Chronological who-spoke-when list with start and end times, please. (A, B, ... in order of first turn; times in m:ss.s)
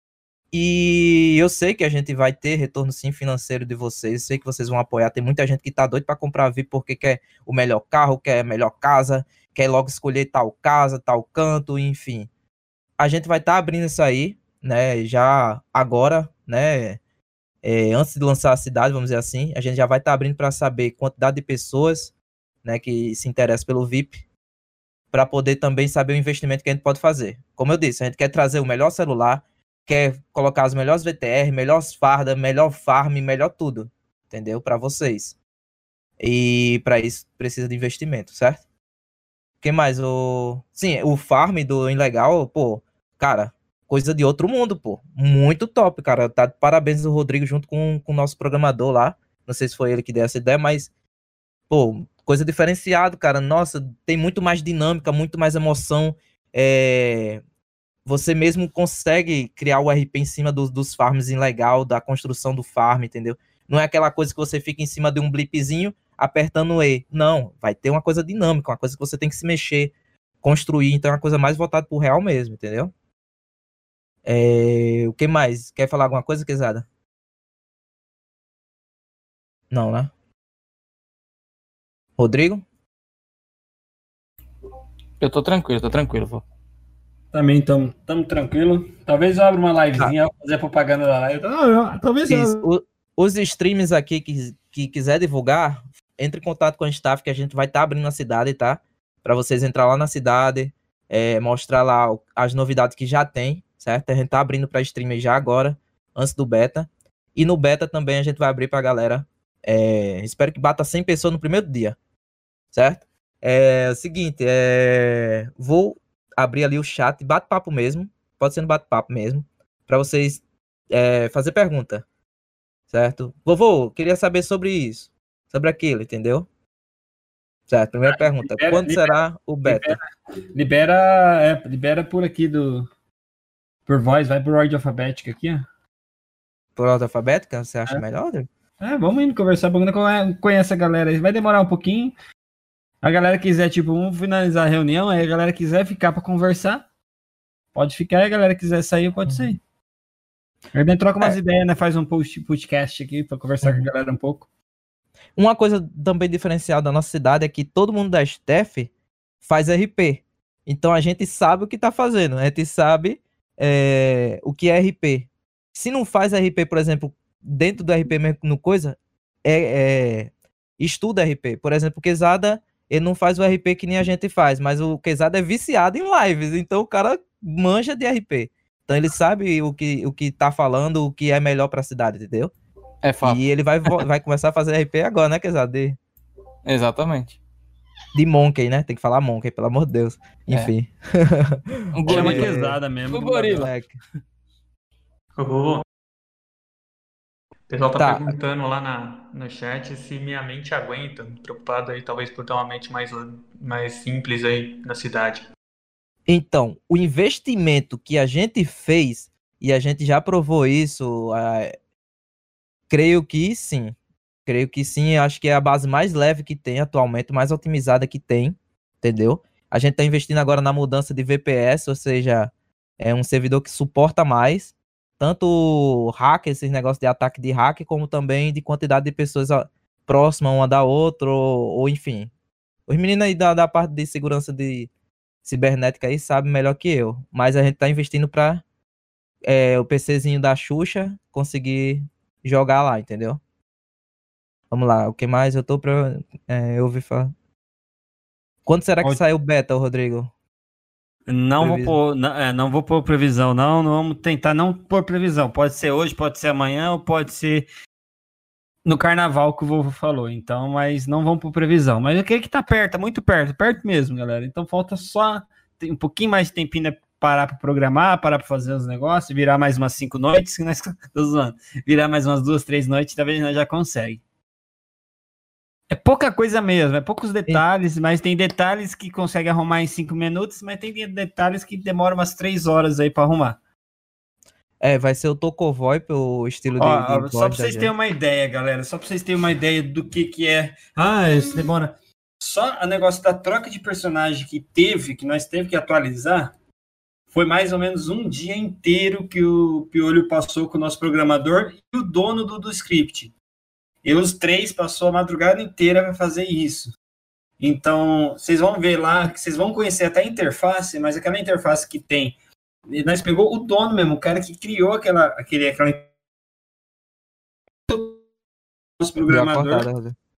0:00.5-0:12.3 A
0:13.0-0:17.0 A
0:17.6-0:22.1 A
0:22.6-0:24.2 A
0:25.1-0:35.3 A
0:36.2-0:38.6 A
0:39.6-0:50.9 A
0:51.7-0:57.4 A
0:58.0-1:12.9 A
1:14.2-1:16.8 A
1:19.7-1:20.1 A
1:22.2-1:22.6 A
1:25.2-1:26.4 B
1:27.3-1:32.6 C
1:32.2-1:52.0 A
1:52.7-2:02.0 A
2:02.9-2:06.4 A
2:07.7-2:10.0 A
2:08.1-2:09.1 C
2:09.6-2:12.9 C
2:13.9-2:15.6 C
2:16.8-2:18.5 A
2:18.8-2:22.1 C
2:23.0-2:26.8 C
2:27.7-2:29.6 C
2:30.7-2:34.5 C
2:35.4-2:38.9 A
2:39.4-3:02.5 A
3:03.0-3:04.0 B
3:03.2-3:06.0 A
3:06.6-3:07.4 B
3:08.1-3:12.8 A
3:11.9-3:12.6 B
3:12.1-3:13.7 C
3:13.1-3:13.7 B
3:13.6-3:14.0 A
3:15.4-3:15.8 D
3:17.7-3:25.5 D
3:17.9-3:18.3 A
3:26.3-3:31.7 A
3:32.9-3:33.9 A
3:34.4-3:52.3 A
3:52.9-3:54.9 A
3:55.4-3:58.6 A
3:59.4-4:03.4 A
4:04.7-4:07.3 A
4:08.6-4:10.3 A
4:11.3-4:17.6 C
4:11.6-4:12.0 A
4:18.8-4:34.2 C
4:35.9-4:43.6 C
4:44.8-4:47.9 A
4:46.8-4:56.5 C
4:57.3-5:03.3 C
5:04.0-5:06.9 C
5:07.6-5:12.4 C
5:12.9-5:16.1 C
5:17.9-5:18.2 C
5:19.0-5:19.9 C
5:19.3-5:20.2 A